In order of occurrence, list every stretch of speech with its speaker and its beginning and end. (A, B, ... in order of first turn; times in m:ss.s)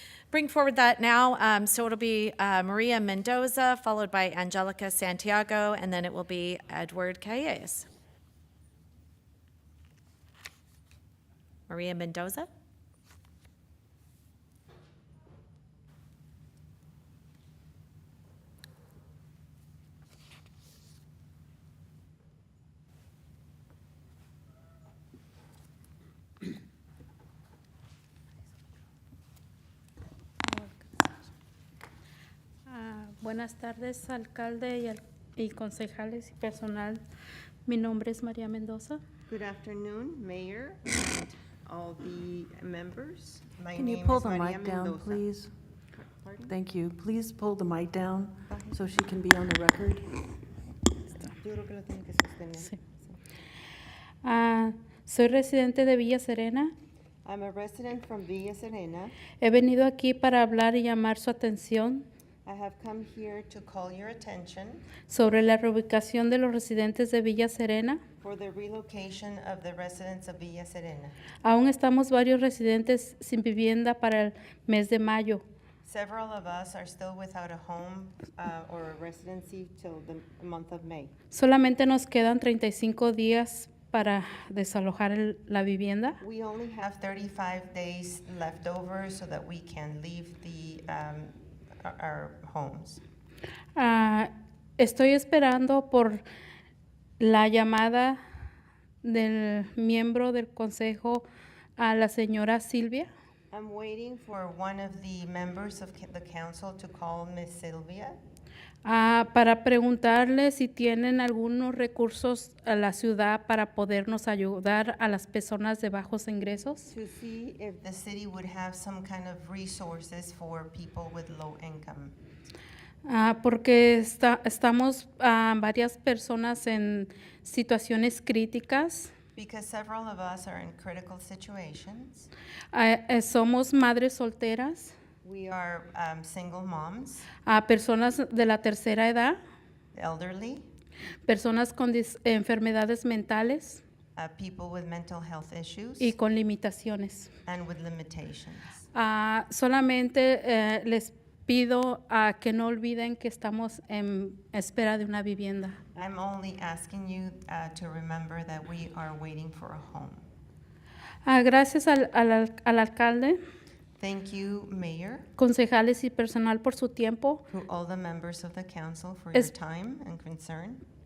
0:00.3-0:07.9 A
0:11.7-0:12.5 A
0:30.4-0:31.2 B
0:32.7-0:37.0 B
0:37.7-0:39.0 B
0:39.3-0:45.2 C
0:43.8-0:45.5 D
0:46.0-0:46.5 C
0:46.5-0:50.0 D
0:48.5-0:48.9 C
0:51.3-0:53.2 C
0:54.2-0:56.7 B
0:57.2-0:59.2 C
0:59.4-1:02.1 B
1:02.4-1:04.9 C
1:05.1-1:08.0 B
1:08.2-1:11.2 C
1:11.4-1:15.4 B
1:15.8-1:21.1 C
1:21.3-1:26.2 B
1:26.2-1:33.0 C
1:33.8-1:36.2 B
1:37.2-1:38.2 B
1:39.0-1:41.3 B
1:41.8-1:43.1 B
1:43.5-1:48.2 C
1:48.8-1:56.9 B
1:56.9-2:02.2 C
2:03.1-2:09.1 B
2:09.4-2:12.3 C
2:12.7-2:15.0 B
2:15.2-2:17.3 C
2:17.5-2:19.4 B
2:20.0-2:20.7 C
2:21.3-2:23.8 B
2:24.2-2:26.1 C
2:26.0-2:27.3 B
2:27.5-2:28.8 C
2:28.9-2:35.8 B
2:36.0-2:40.3 C
2:41.3-2:43.4 B
2:44.0-2:45.3 C
2:45.4-2:47.4 B
2:47.5-2:50.8 C